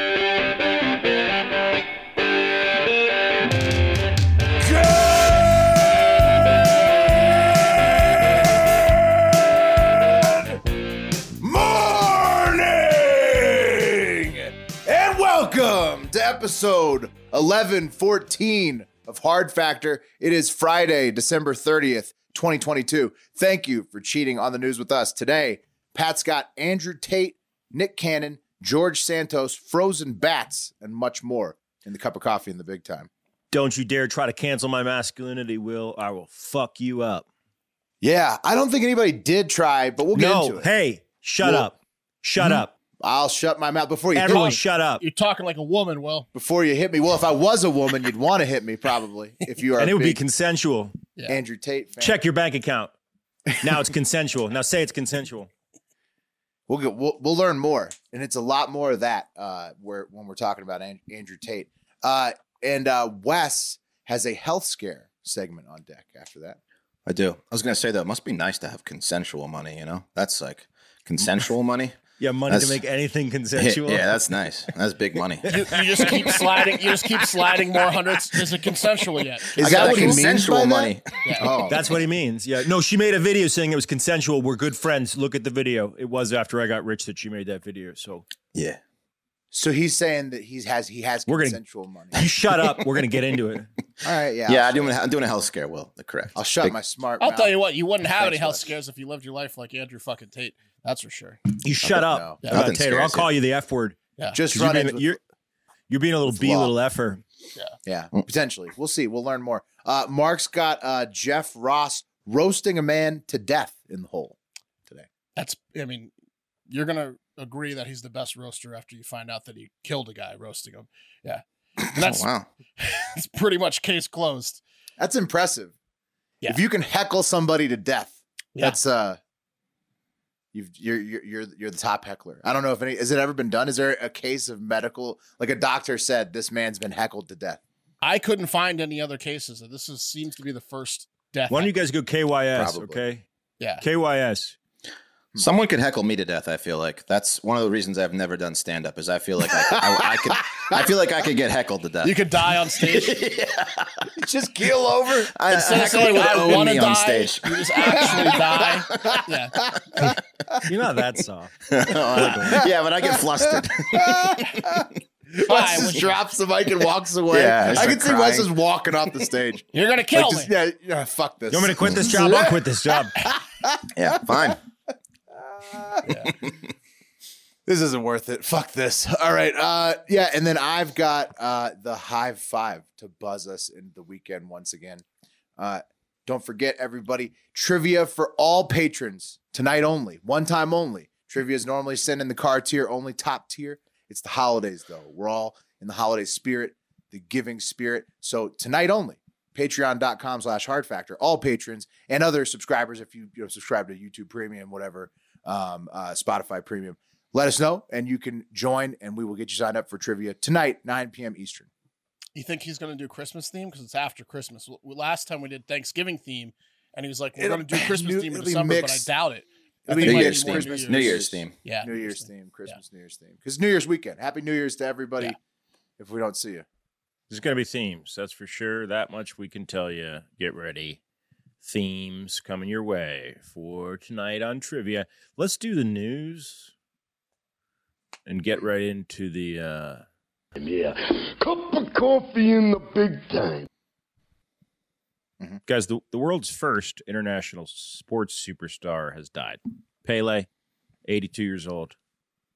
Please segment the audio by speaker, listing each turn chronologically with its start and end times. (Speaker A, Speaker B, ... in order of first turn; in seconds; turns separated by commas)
Speaker A: 4.6-5.9, Speaker A: 7.2-8.0, Speaker A: 8.8-9.9, Speaker A: 11.4-33.1, Speaker B: 33.5-37.3, Speaker A: 38.0-40.7, Speaker B: 40.1-42.7, Speaker A: 41.4-41.7, Speaker A: 42.4-44.6, Speaker B: 44.1-45.0, Speaker C: 44.3-46.3, Speaker A: 46.3-50.2, Speaker B: 49.8-51.0, Speaker A: 51.3-52.2, Speaker B: 52.0-52.9, Speaker B: 53.6-55.5, Speaker A: 56.7-66.6, Speaker D: 67.0-72.0, Speaker B: 72.2-74.2, Speaker D: 72.5-72.8, Speaker D: 73.5-75.5, Speaker B: 75.4-76.3, Speaker C: 75.5-80.2, Speaker A: 79.6-81.9, Speaker D: 79.6-81.9, Speaker C: 81.2-81.5, Speaker B: 81.7-88.2, Speaker D: 88.5-88.8, Speaker A: 89.5-92.2, Speaker B: 91.3-91.6, Speaker B: 92.1-93.7, Speaker A: 94.0-94.9, Speaker D: 94.5-96.8, Speaker A: 96.3-98.6, Speaker C: 97.2-101.4, Speaker B: 101.6-105.2, Speaker A: 101.9-102.4, Speaker D: 102.5-103.3, Speaker A: 104.3-105.2, Speaker B: 105.9-107.2, Speaker A: 106.3-106.7, Speaker A: 107.8-115.1, Speaker C: 115.3-116.1, Speaker C: 116.7-124.6, Speaker D: 121.9-122.5, Speaker A: 125.0-125.7, Speaker A: 126.5-129.2, Speaker A: 130.5-137.6, Speaker C: 138.0-141.7, Speaker B: 141.5-143.3, Speaker D: 142.6-142.9, Speaker C: 143.6-143.8, Speaker B: 143.8-144.6, Speaker D: 145.4-154.1, Speaker A: 149.6-150.8, Speaker C: 152.0-153.2, Speaker A: 154.2-155.3, Speaker D: 155.3-158.6, Speaker C: 155.5-159.6, Speaker A: 157.8-160.1, Speaker B: 160.7-162.7, Speaker D: 161.7-164.6, Speaker A: 162.2-174.5, Speaker C: 165.4-166.2, Speaker D: 167.3-168.5, Speaker C: 169.7-170.5, Speaker B: 171.5-173.2, Speaker D: 171.8-172.1, Speaker D: 174.0-174.6, Speaker A: 175.3-176.0, Speaker C: 176.1-176.3, Speaker A: 177.7-185.0, Speaker A: 185.6-211.7, Speaker C: 212.3-222.8, Speaker A: 217.4-219.1, Speaker A: 219.9-225.4, Speaker D: 220.0-221.5, Speaker A: 226.0-226.7, Speaker B: 227.3-231.0, Speaker B: 231.6-236.7, Speaker B: 238.3-240.0, Speaker E: 240.6-243.7, Speaker B: 245.7-250.5, Speaker B: 251.0-252.0